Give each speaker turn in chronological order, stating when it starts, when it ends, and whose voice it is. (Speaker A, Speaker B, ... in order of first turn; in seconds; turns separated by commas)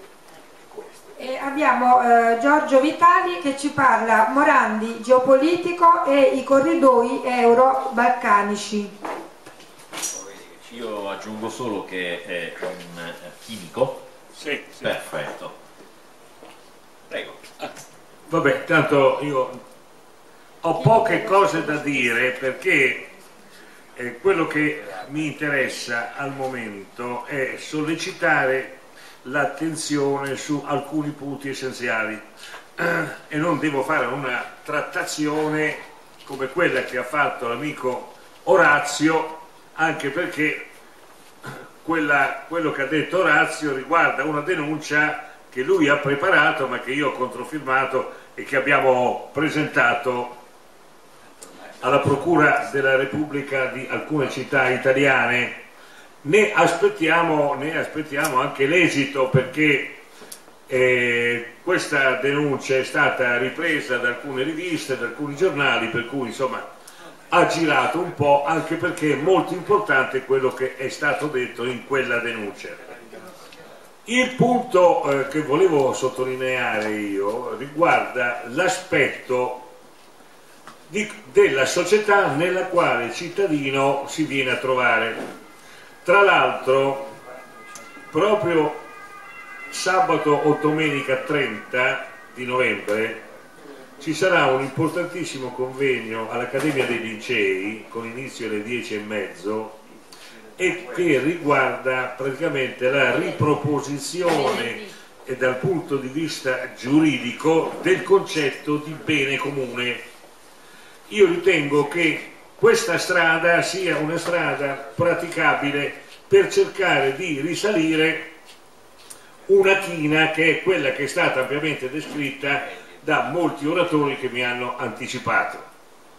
Speaker A: 1.2-8.9, Speaker B: 10.5-14.0, Speaker C: 14.4-14.8, Speaker B: 14.8-15.6, Speaker B: 17.1-17.4, Speaker C: 18.3-19.6, Speaker C: 20.6-23.1, Speaker A: 20.8-21.9, Speaker C: 24.0-32.3, Speaker C: 32.8-40.7, Speaker C: 41.8-50.4, Speaker C: 51.8-55.6, Speaker C: 56.2-60.0, Speaker C: 60.7-66.7, Speaker C: 67.3-72.9, Speaker C: 74.1-79.7, Speaker C: 80.9-85.2, Speaker C: 86.0-87.1, Speaker C: 88.1-88.8, Speaker C: 89.7-93.2, Speaker C: 94.0-99.8, Speaker C: 100.6-110.0, Speaker C: 111.1-118.3, Speaker C: 119.5-125.7